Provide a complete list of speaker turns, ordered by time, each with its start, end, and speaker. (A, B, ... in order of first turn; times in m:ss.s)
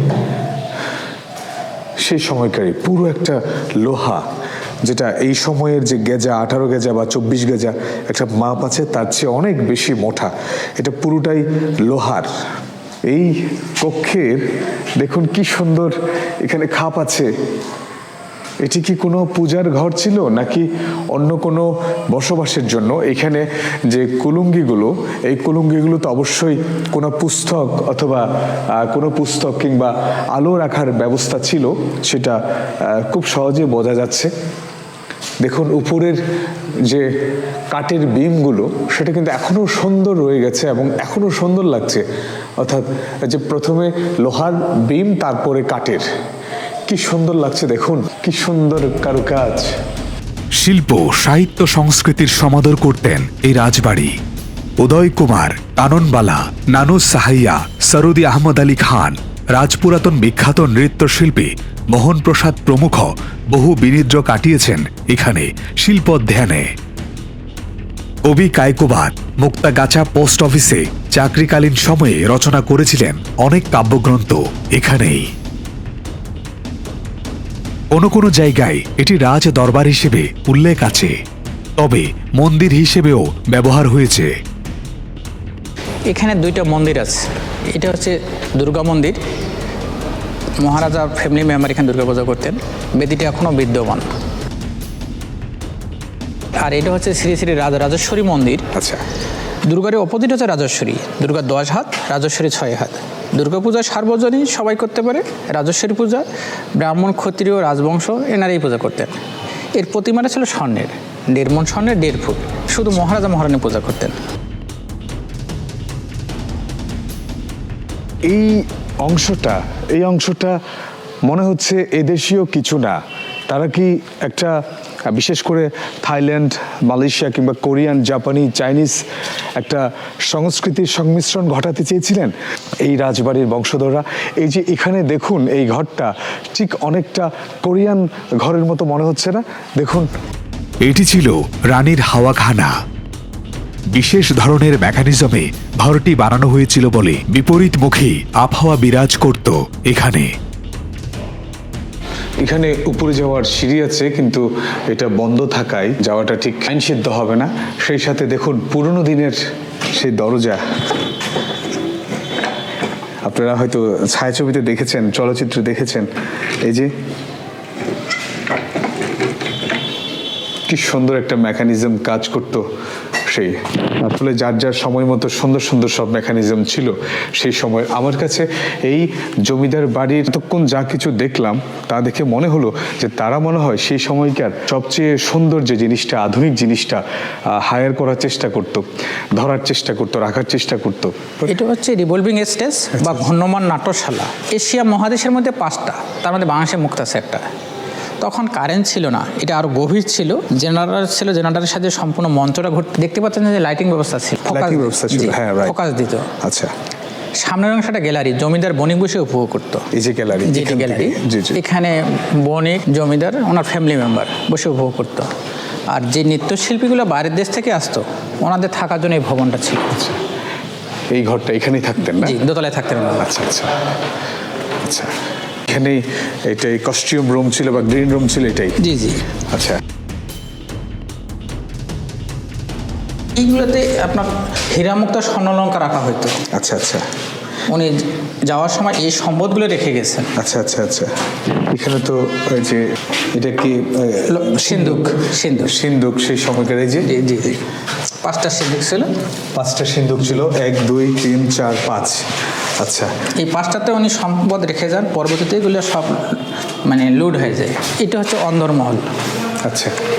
0:02.0-0:04.2 A
0:04.8-0:12.3 A
0:13.1-0:14.4 A
0:15.0-0:17.3 A
0:18.6-0:34.3 A
0:35.4-0:36.2 A
0:37.7-0:42.0 A
0:42.6-0:46.0 A
0:46.9-0:49.7 A
0:50.6-0:54.1 B
0:54.8-1:06.7 B
1:08.2-1:15.3 B
1:17.9-1:21.1 B
1:21.8-1:24.3 B
1:26.1-1:27.2 C
1:27.7-1:29.2 C
1:30.6-1:34.0 C
1:36.6-1:38.7 C
1:38.7-1:39.0 A
1:39.7-1:46.2 C
1:46.8-1:49.2 C
1:49.8-1:54.2 C
1:58.2-2:00.5 A
2:01.3-2:03.0 A
2:03.5-2:04.5 A
2:05.1-2:09.0 A
2:09.6-2:12.3 A
2:12.8-2:20.1 A
2:20.8-2:22.7 B
2:23.9-2:30.3 B
2:32.4-2:39.4 A
2:39.9-2:40.6 A
2:43.2-2:46.1 A
2:46.6-2:46.9 A
2:50.7-2:52.6 A
2:53.3-3:07.0 A
3:07.5-3:11.4 A
3:11.5-3:17.4 C
3:18.2-3:26.3 C
3:24.5-3:25.8 A
3:26.4-3:26.7 A
3:27.4-3:29.8 C
3:29.9-3:31.6 A
3:30.4-3:35.3 C
3:35.9-3:39.8 C
3:39.9-3:40.2 A
3:41.1-3:42.4 A
3:42.1-3:43.3 C
3:43.2-3:43.7 A
3:44.8-3:45.1 A
3:45.7-3:48.8 A
3:48.8-3:49.2 C
3:49.5-3:49.8 A
3:53.4-3:56.4 C
3:56.5-3:57.0 A
3:57.7-4:00.3 C
4:00.4-4:05.0 A
4:04.3-4:05.8 C
4:05.6-4:07.1 A
4:07.0-4:07.6 C
4:08.2-4:09.1 C
4:09.5-4:12.3 A
4:12.8-4:13.1 A
4:13.4-4:19.1 C
4:19.6-4:19.9 A